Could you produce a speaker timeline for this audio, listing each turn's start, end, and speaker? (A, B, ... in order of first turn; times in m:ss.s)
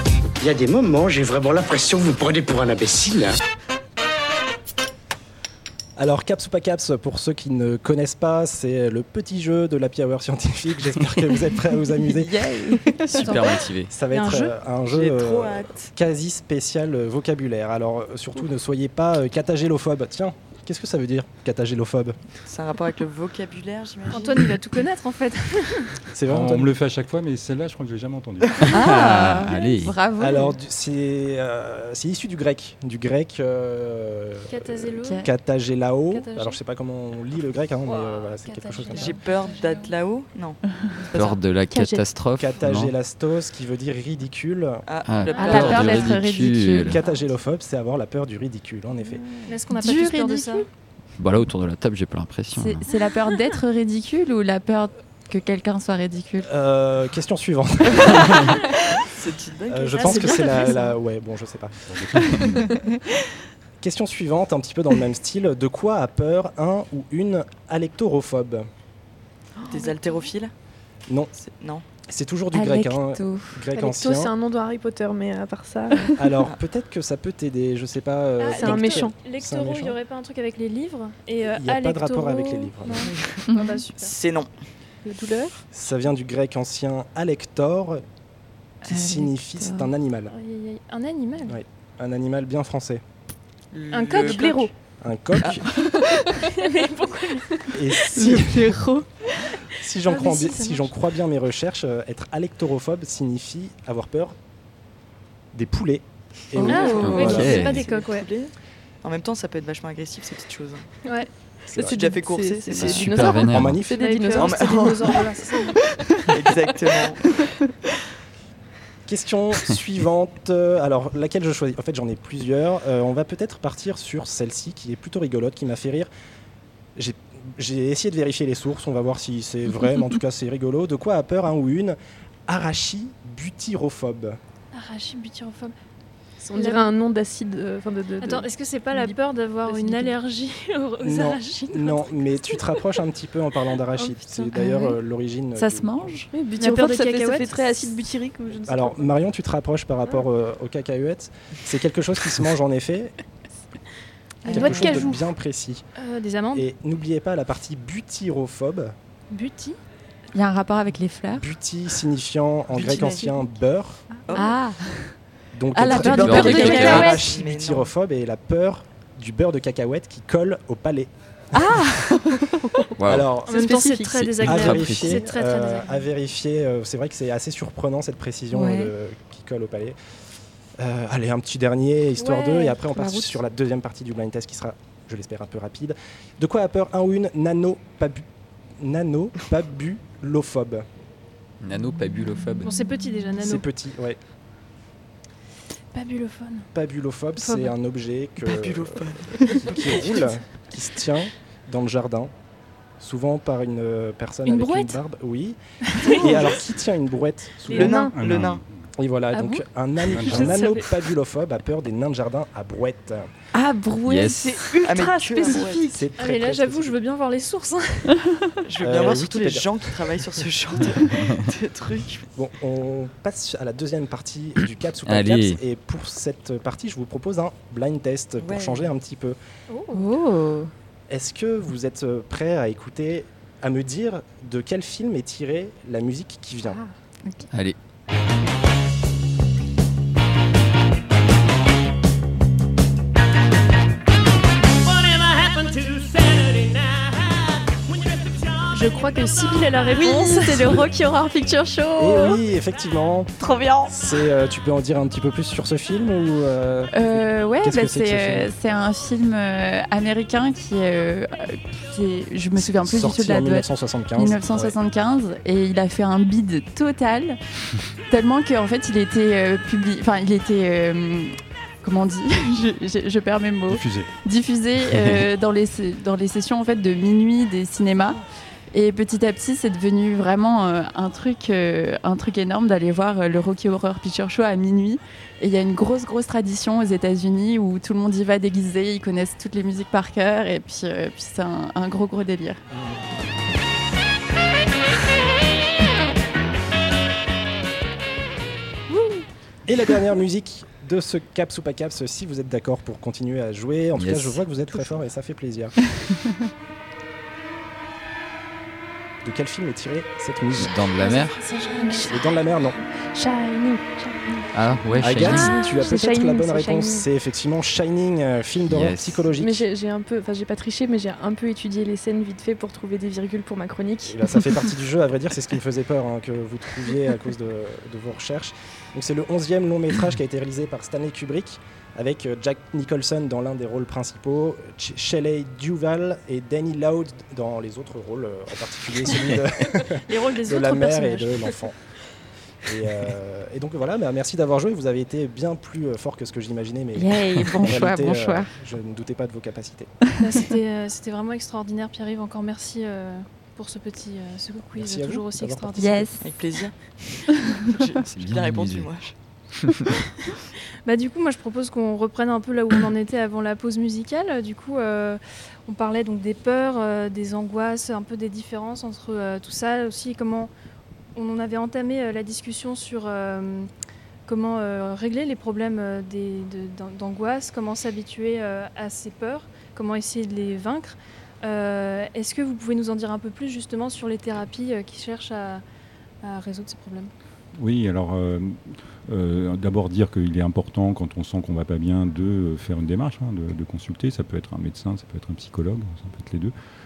0:00.4-0:03.4 A
0:06.0-0:22.2 B
0:12.1-0:13.5 C
0:13.0-0:13.9 D
0:14.1-0:14.5 E
0:14.9-0:15.9 F
0:22.4-0:24.6 F
0:24.1-0:25.9 E
0:26.1-0:26.7 B
0:26.2-0:28.9 G
0:28.7-0:29.9 D
0:28.7-0:30.6 C
0:30.2-0:39.2 B
0:34.5-0:35.2 E
0:35.0-0:35.3 C
0:36.1-0:36.6 E
0:37.8-0:39.9 E
0:38.9-0:41.4 F
0:41.1-0:42.9 D
0:41.7-0:42.0 C
0:42.3-0:44.8 B
0:44.8-0:46.2 F
0:45.0-0:47.0 D
0:45.3-0:45.6 E
0:45.4-0:47.0 C
0:45.5-0:46.0 B
0:46.8-0:49.2 B
0:49.5-0:50.6 E
0:49.7-0:50.7 C
0:51.2-0:52.9 D
0:52.5-0:56.5 C
0:56.4-0:58.6 B
0:59.0-1:00.6 F
0:59.7-1:02.2 B
0:59.9-1:01.0 E
1:01.9-1:02.6 G
1:03.8-1:08.7 B
1:09.6-1:10.5 F
1:09.7-1:10.3 E
1:11.3-1:11.8 F
1:12.1-1:14.3 B
1:12.5-1:13.6 C
1:13.7-1:16.1 H
1:16.2-1:20.0 B
1:18.4-1:24.2 E
1:18.5-1:19.1 H
1:21.5-1:23.1 B
1:23.1-1:23.4 F
1:23.9-1:24.7 F
1:25.0-1:25.6 H
1:25.7-1:28.0 B
1:28.8-1:30.3 B
1:28.9-1:29.9 C
1:30.3-1:31.6 E
1:31.5-1:33.0 B
1:33.7-1:34.6 F
1:33.9-1:34.7 E
1:34.2-1:34.7 H
1:35.0-1:35.7 B
1:35.4-1:35.8 F
1:36.5-1:38.4 E
1:37.7-1:38.9 B
1:38.3-1:39.0 C
1:39.5-1:40.9 E
1:39.6-1:44.4 B
1:45.5-1:47.8 B
1:46.6-1:47.3 H
1:46.6-1:50.9 F
1:46.7-1:48.3 E
1:47.0-1:47.8 D
1:51.7-1:53.4 F
1:51.7-1:52.1 B
1:51.9-1:55.7 H
1:52.7-1:53.8 D
1:53.3-1:54.3 B
1:53.9-1:55.8 E
1:54.3-1:55.3 F
1:56.3-1:57.2 F
1:59.0-2:06.1 B
2:07.0-2:14.4 B
2:14.7-2:15.7 E
2:16.4-2:19.2 H
2:16.5-2:16.9 E
2:18.2-2:22.7 E
2:19.7-2:20.1 H
2:21.0-2:26.2 B
2:24.4-2:25.0 C
2:25.5-2:26.3 C
2:26.3-2:29.1 H
2:26.6-2:27.5 E
2:28.6-2:33.1 B
2:34.4-2:35.2 E
2:34.5-2:35.8 B
2:34.5-2:34.8 F
2:34.5-2:35.2 H
2:36.0-2:36.7 E
2:36.5-2:38.9 B
2:39.3-2:39.8 E
2:40.3-2:41.5 C
2:41.4-2:44.0 B
2:42.7-2:43.3 F
2:44.3-2:44.6 F
2:44.4-2:45.1 C
2:45.5-2:51.8 B
2:45.7-2:47.4 C
2:45.8-2:47.9 F
2:46.0-2:47.2 D
2:46.2-2:46.6 E
2:51.5-2:52.4 C
2:53.0-2:53.3 D
2:53.0-2:53.8 B
2:53.5-2:56.0 E
2:53.5-2:54.2 C
2:54.1-2:55.2 D
2:54.4-3:00.0 B
2:58.5-2:58.9 C
3:00.8-3:08.3 B
3:02.2-3:03.4 H
3:08.8-3:10.8 B
3:11.6-3:12.7 D
3:12.6-3:13.6 E
3:13.4-3:14.2 B
3:15.9-3:16.7 E
3:16.7-3:22.3 B
3:17.4-3:17.7 E
3:18.4-3:20.2 F
3:23.0-3:28.1 B
3:24.4-3:25.0 E
3:25.9-3:26.6 E
3:26.1-3:26.6 F
3:27.6-3:28.1 E
3:27.7-3:28.6 F
3:28.1-3:28.6 G
3:29.0-3:33.3 B
3:29.3-3:31.0 E
3:30.1-3:30.6 G
3:33.5-3:35.9 C
3:34.1-3:34.5 D
3:34.8-3:35.9 F
3:34.9-3:38.1 E
3:35.9-3:37.0 B
3:38.6-3:42.3 F
3:38.8-3:39.9 B
3:42.3-3:49.4 B
3:45.0-3:45.6 D
3:48.4-3:48.9 F
3:49.7-3:50.1 E
3:49.9-3:50.7 C
3:51.1-3:56.8 B
3:56.7-3:57.5 C
4:08.7-4:10.8 E
4:09.9-4:12.4 C
4:12.0-4:18.5 B
4:13.4-4:13.9 C
4:16.9-4:27.4 C
4:22.6-4:24.8 B
4:28.1-4:52.6 C
4:33.7-4:34.1 G
4:59.6-5:05.8 B
5:03.9-5:04.4 D
5:09.2-5:10.8 B
5:10.6-5:11.4 D
5:11.0-5:12.5 E
5:11.6-5:12.2 H
5:12.0-5:12.8 B
5:13.0-5:17.0 H
5:14.5-5:15.6 D
5:15.0-5:19.6 B
5:18.7-5:19.2 D
5:19.3-5:24.3 H
5:24.0-5:41.8 B
5:40.1-5:41.6 E
5:42.6-5:49.9 B
5:46.9-5:48.5 C
5:50.2-5:56.1 E
5:54.7-5:56.0 B
5:55.8-5:56.2 C
5:56.2-5:59.1 F
5:58.1-5:58.9 D
6:00.8-6:10.5 E
6:11.1-6:13.7 E
6:14.2-6:25.6 E
6:26.2-6:27.1 E
6:27.6-6:36.5 G